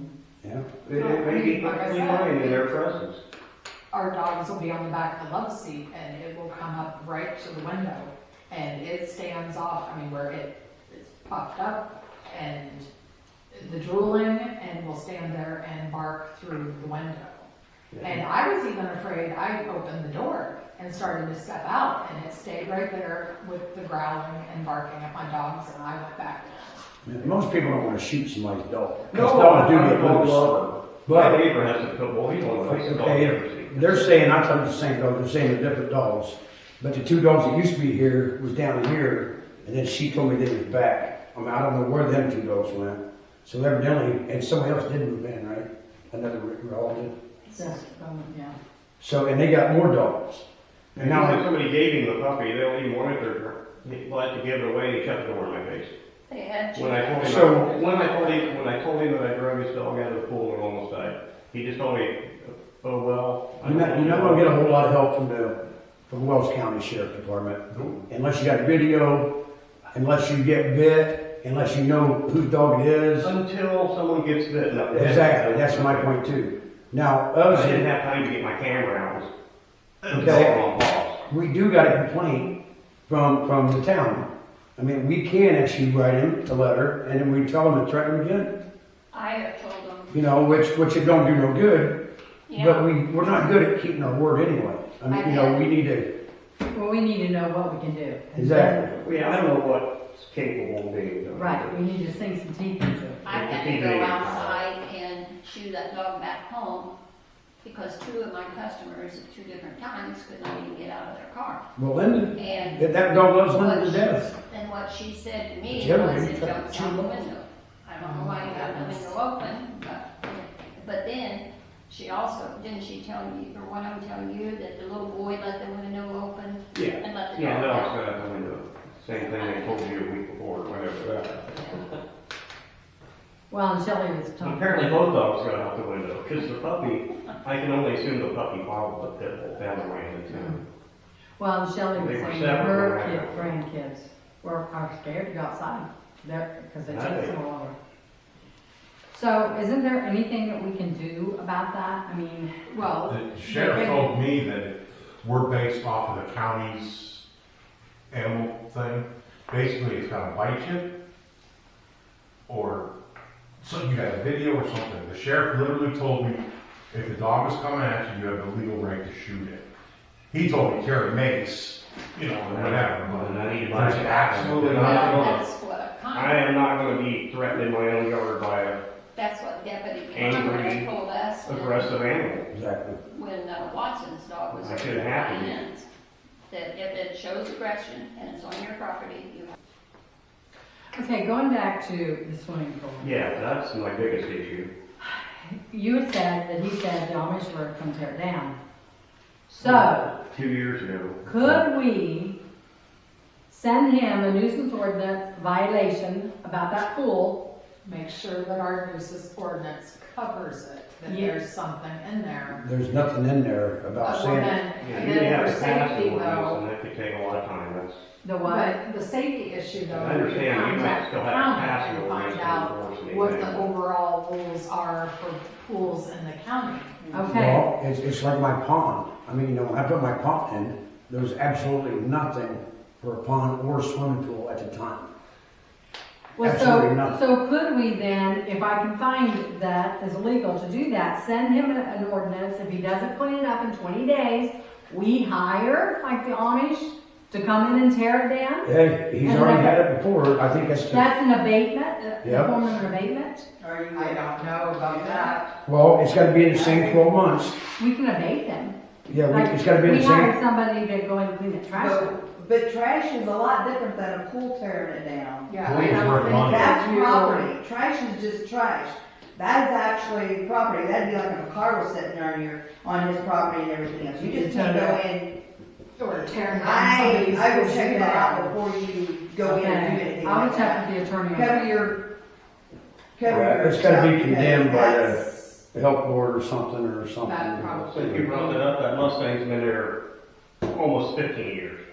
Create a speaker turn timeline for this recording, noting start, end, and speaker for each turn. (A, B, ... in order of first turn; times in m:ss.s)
0:00.9-0:03.2 A
0:00.9-0:02.5 B
0:01.1-0:02.2 C
0:03.9-0:12.9 B
0:13.5-0:17.4 B
0:18.0-0:26.8 B
0:27.0-0:30.5 D
0:29.1-0:33.9 A
0:29.5-0:30.2 C
0:31.0-0:31.4 D
0:32.6-0:47.1 D
0:47.4-0:47.8 C
0:47.5-0:48.5 E
0:49.0-0:50.4 D
0:50.9-0:51.5 D
0:50.9-0:55.9 A
0:56.3-0:58.4 C
0:56.7-1:04.4 A
0:57.2-0:57.7 D
1:03.6-1:05.5 D
1:06.1-1:09.3 D
1:09.9-1:13.3 D
1:13.2-1:16.1 A
1:14.9-1:17.9 D
1:17.5-1:19.3 A
1:20.0-1:20.4 F
1:20.1-1:20.6 D
1:20.1-1:21.2 A
1:21.3-1:22.5 D
1:23.1-1:28.5 D
1:29.1-1:30.1 C
1:30.1-1:32.0 D
1:32.5-1:32.8 C
1:32.5-1:36.1 D
1:35.1-1:35.5 C
1:36.7-1:38.9 E
1:38.4-1:38.9 D
1:39.0-1:41.8 A
1:41.3-1:43.2 E
1:43.2-1:44.6 A
1:43.2-1:46.9 C
1:47.6-1:51.6 C
1:51.8-1:54.3 D
1:52.3-2:07.9 C
1:55.7-1:57.2 D
2:06.7-2:11.4 A
2:11.5-2:11.8 C
2:13.5-2:15.0 E
2:14.4-2:20.6 A
2:20.3-2:20.6 E
2:21.4-2:27.7 E
2:21.9-2:23.6 A
2:26.8-2:27.3 A
2:29.1-2:32.5 E
2:32.7-2:34.1 B
2:32.9-2:37.2 F
2:38.1-2:40.9 F
2:42.5-2:42.9 F
2:43.6-2:49.6 F
2:50.3-2:55.5 F
2:52.5-2:55.3 A
2:54.8-2:56.2 C
2:56.1-2:58.8 A
2:59.1-3:01.9 C
3:00.1-3:00.9 A
3:01.4-3:02.5 A
3:02.5-3:03.0 D
3:03.1-3:05.8 C
3:04.5-3:05.6 A
3:06.5-3:09.5 C
3:10.9-3:13.1 E
3:13.0-3:14.7 A
3:15.0-3:18.5 E
3:19.5-3:20.1 E
3:19.6-3:21.6 A
3:21.2-3:22.3 E
3:23.5-3:27.4 E
3:27.8-3:32.5 B
3:31.0-3:31.4 E
3:32.5-3:34.6 D
3:34.0-3:36.6 B
3:34.8-3:38.0 A
3:38.2-3:38.8 E
3:38.4-3:47.0 B
3:39.9-3:43.7 A
3:47.1-3:47.6 E
3:47.3-3:55.1 D
3:56.4-4:08.7 E
3:56.4-3:57.2 D
4:08.6-4:11.0 D
4:09.2-4:09.8 E
4:10.9-4:13.4 E
4:12.2-4:12.5 D
4:13.6-4:15.4 G
4:13.9-4:15.4 B
4:15.6-4:17.6 D
4:16.5-4:16.9 G
4:17.8-4:18.7 E
4:19.1-4:20.3 D
4:19.3-4:22.0 E
4:21.7-4:35.4 G
4:25.5-4:27.5 B
4:25.6-4:26.7 F
4:34.3-4:35.0 B
4:36.0-4:38.5 B
4:36.4-4:42.0 G
4:39.4-4:41.6 E
4:43.2-4:45.3 G
4:43.3-4:45.2 D
4:45.7-4:48.2 D
4:47.2-4:48.6 B
4:47.9-4:50.0 A
4:50.7-4:51.8 A